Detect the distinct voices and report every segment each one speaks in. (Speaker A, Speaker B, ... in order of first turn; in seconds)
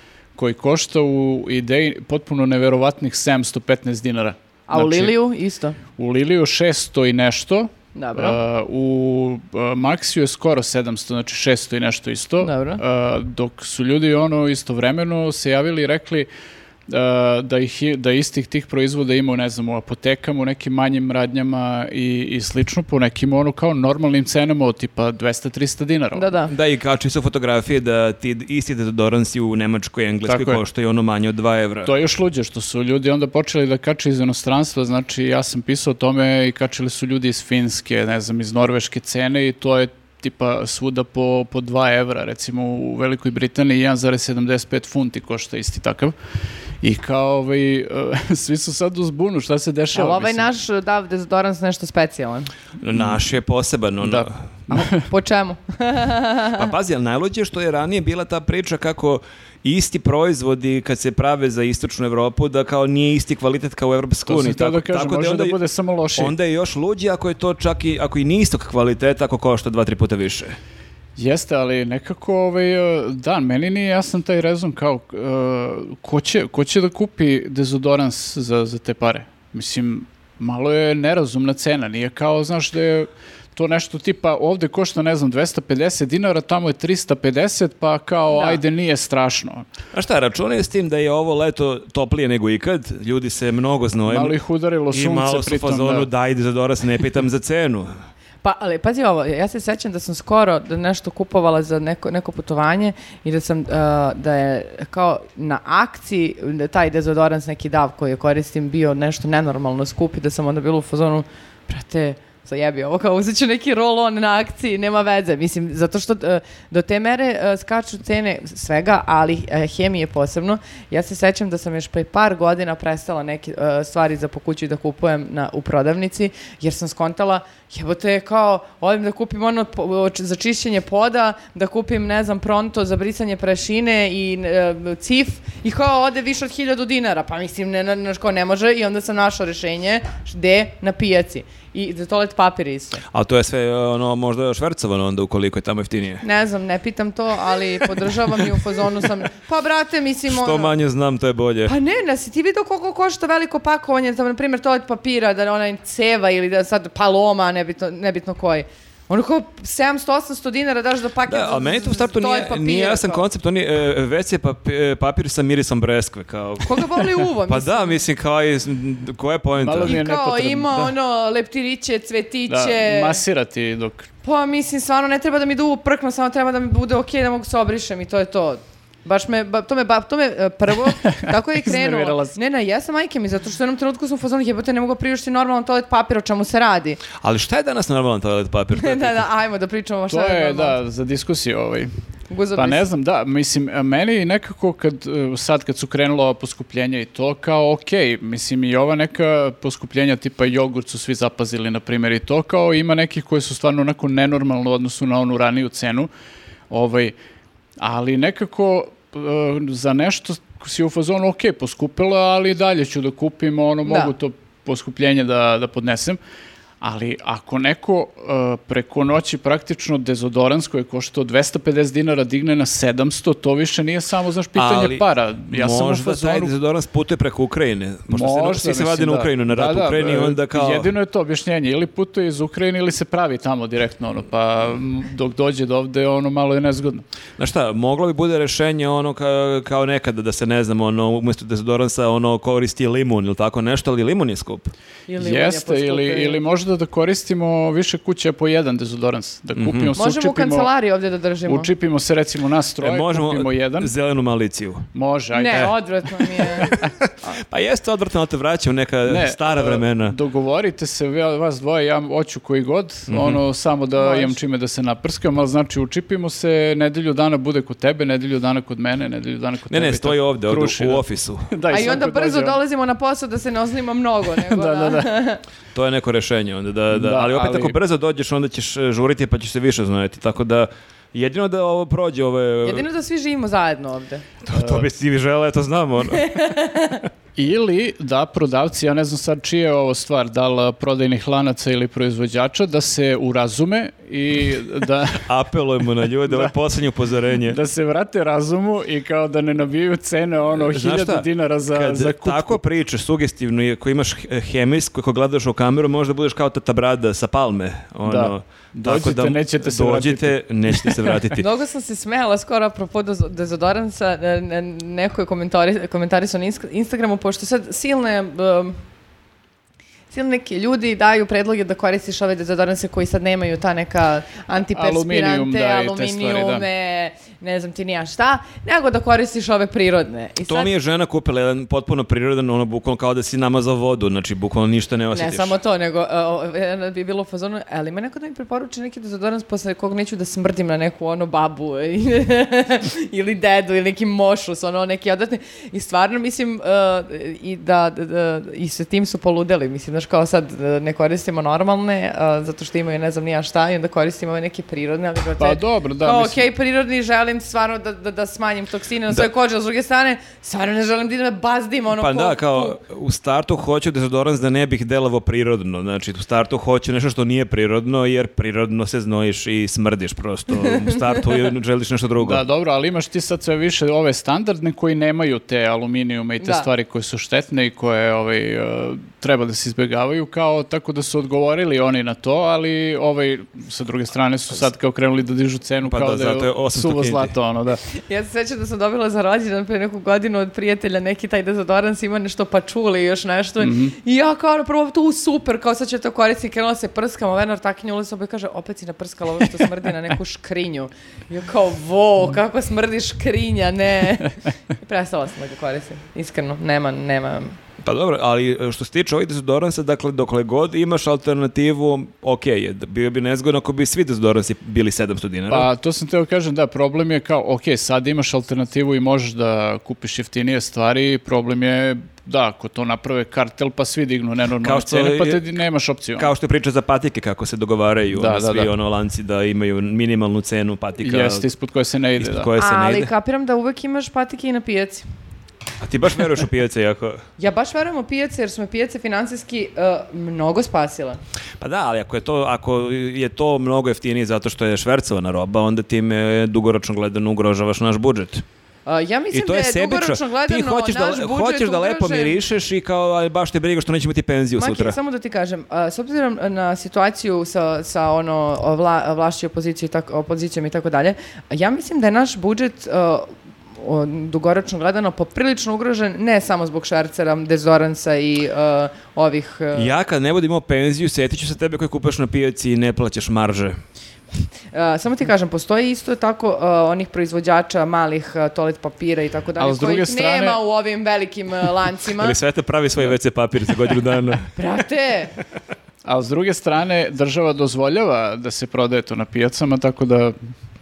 Speaker A: 0.3-5.1, 6.0-16.3, 16.9-26.3, 30.2-30.6, 31.8-46.1, 46.8-50.5, 54.0-55.1, 64.3-66.3, 71.2-89.7, 94.0-96.1, 169.6-170.9, 172.5-174.1, 181.0-182.3, 190.1-191.9, 192.6-206.1, 206.7-207.2, 207.8-216.2, 216.8-226.5, 228.1-237.1, 245.2-250.7, 251.4-253.9, 254.9-255.7, 259.1-272.6, 274.4-275.1, 276.9-277.8, 284.5-284.9, 287.4-295.2, 297.5-302.6, 308.1-311.2, 324.7-326.6, 355.4-356.4, 372.2-387.8, 393.6-393.9, 415.5-426.3, 428.1-428.7, 431.0-432.5, 479.6-480.6, 486.0-490.4
Speaker B: 4.7-5.8, 7.9-8.4, 12.4-12.8, 26.1-26.5, 49.9-52.5, 55.0-56.7, 88.3-88.6, 98.4-143.0, 146.2-150.7, 151.7-163.2, 166.6-168.0, 169.8-173.2, 174.2-187.0, 188.8-190.8, 192.3-192.8, 213.8-214.1, 245.1-246.4, 249.9-251.7, 255.3-256.7, 264.0-264.4, 271.7-275.4, 282.6-284.2, 286.1-287.0, 311.4-318.8, 320.1-330.7, 335.1-362.8, 370.6-371.0, 376.4-376.7, 388.0-407.6, 432.6-435.1, 437.4-441.2, 448.9-452.4, 454.6-469.9, 474.7-482.4, 484.6-485.3
Speaker C: 26.5-31.9, 52.8-54.3, 56.6-65.6, 66.2-70.6, 89.9-94.4, 94.9-97.9, 143.1-146.2, 150.3-151.7, 161.3-170.0, 187.2-189.2, 224.6-230.9, 237.4-244.7, 249.5-249.9, 252.8-254.9, 256.2-260.2, 263.1-263.4, 269.7-271.5, 275.7-282.9, 284.4-286.4, 295.2-297.6, 300.6-311.4, 330.5-335.6, 362.0-372.4, 385.8-387.3, 407.8-415.7, 424.6-425.5, 426.2-431.4, 432.2-433.1, 435.8-437.2, 441.6-448.4, 449.3-454.9, 469.7-473.8, 482.2-484.5